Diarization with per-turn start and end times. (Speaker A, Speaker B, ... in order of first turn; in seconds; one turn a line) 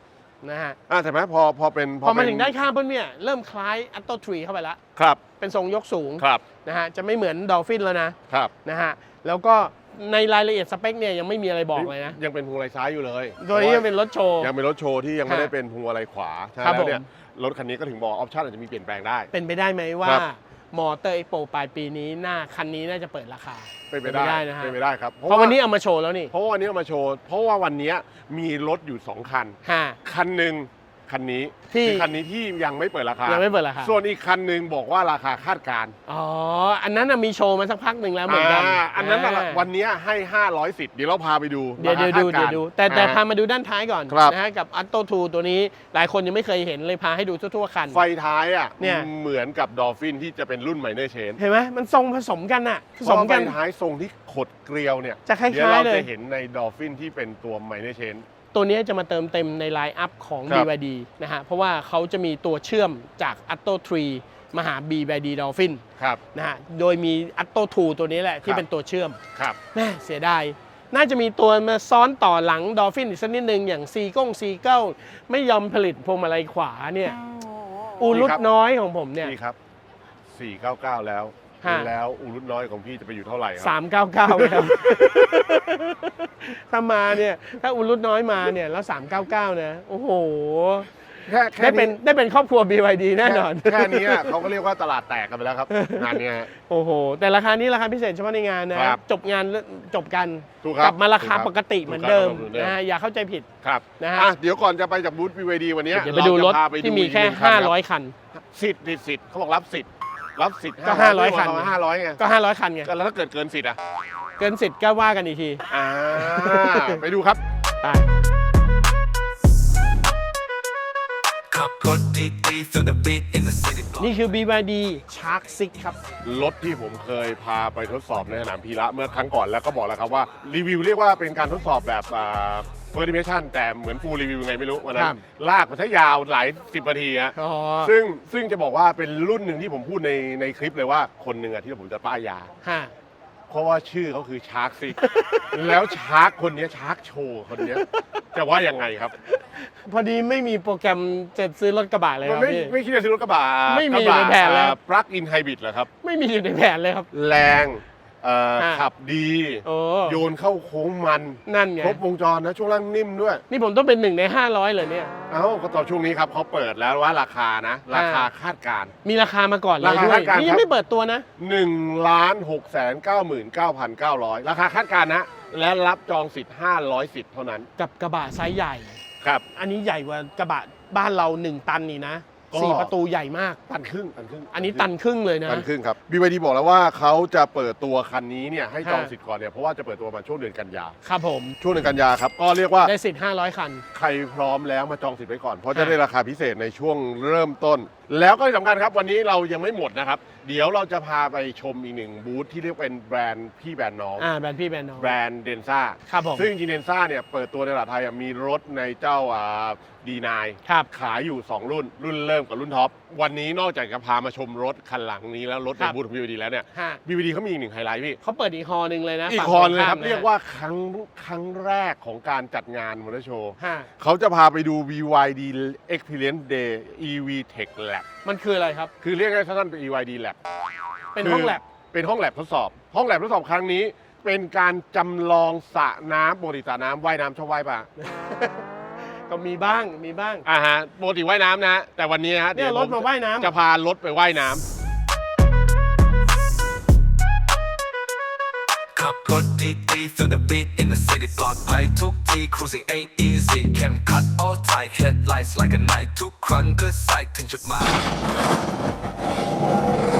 Speaker A: 0.4-0.8
Speaker B: 0.9-2.5
Speaker A: 2.0-4.8
Speaker B: 5.0-5.2
Speaker A: 5.4-12.2
Speaker B: 6.2-6.4
Speaker B: 11.7-13.9
Speaker A: 13.4-14.5
Speaker B: 14.4-19.3
Speaker A: 15.2-15.5
Speaker A: 16.6-17.0
Speaker A: 19.3-24.8
Speaker B: 23.9-25.6
Speaker A: 25.3-26.3
Speaker B: 26.3-35.9
Speaker A: 29.6-30.0
Speaker A: 31.7-32.1
Speaker A: 33.2-33.9
Speaker A: 36.1-39.6
Speaker B: 38.3-43.2
Speaker A: 41.8-48.0
Speaker B: 44.1-44.4
Speaker B: 47.9-51.4
Speaker A: 48.8-49.1
Speaker A: 51.4-53.5
Speaker B: 53.0-58.2
Speaker A: 55.2-56.1
Speaker A: 58.5-69.2
Speaker A: 69.7-77.2
Speaker A: 78.0-79.3
Speaker B: 78.1-78.4
Speaker B: 79.2-79.6
Speaker B: 80.3-83.7
Speaker A: 81.6-81.9
Speaker A: 83.6-91.0
Speaker B: 84.3-85.5
Speaker B: 91.2-92.0
Speaker A: 91.6-94.4
Speaker B: 93.2-96.5
Speaker A: 95.7-104.3
Speaker B: 98.7-99.0
Speaker B: 100.6-102.8
Speaker B: 103.6-107.7
Speaker A: 105.9-108.1
Speaker B: 108.3-112.2
Speaker A: 110.8-112.9
Speaker B: 112.8-113.8
Speaker A: 114.4-117.0
Speaker B: 115.7-117.4
Speaker C: 121.5-124.1
Speaker A: 124.0-126.0
Speaker B: 126.2-142.5
Speaker A: 134.9-135.2
Speaker A: 137.3-137.9
Speaker A: 142.6-142.9
Speaker B: 143.5-149.1
Speaker A: 145.0-145.5
Speaker A: 147.6-148.0
Speaker A: 149.3-152.7
Speaker B: 152.2-155.9
Speaker A: 153.7-154.8
Speaker A: 156.0-157.1
Speaker B: 157.1-163.4
Speaker A: 158.6-158.9
Speaker A: 159.6-160.2
Speaker A: 161.5-162.0
Speaker A: 163.5-165.1
Speaker B: 165.3-168.9
Speaker A: 167.9-168.3
Speaker A: 169.0-171.3
Speaker B: 169.8-170.7
Speaker B: 171.4-177.7
Speaker A: 177.8-179.0
Speaker A: 179.5-183.6
Speaker B: 182.5-182.9
Speaker B: 183.7-184.9
Speaker A: 184.5-185.7
Speaker B: 185.4-190.9
Speaker A: 188.8-189.1
Speaker A: 191.0-191.6
Speaker B: 191.6-192.9
Speaker A: 192.8-193.8
Speaker B: 193.9-204.3
Speaker A: 204.2-205.1
Speaker B: 205.0-218.2
Speaker A: 206.1-206.5
Speaker A: 216.7-217.0
Speaker A: 218.2-220.3
Speaker B: 219.3-228.1
Speaker A: 223.6-223.9
Speaker A: 228.2-228.9
Speaker B: 229.0-230.4
Speaker A: 231.1-231.6
Speaker B: 231.2-237.9
Speaker A: 238.0-238.6
Speaker A: 239.3-240.4
Speaker B: 240.4-244.6
Speaker A: 242.5-243.5
Speaker C: 248.9-258.1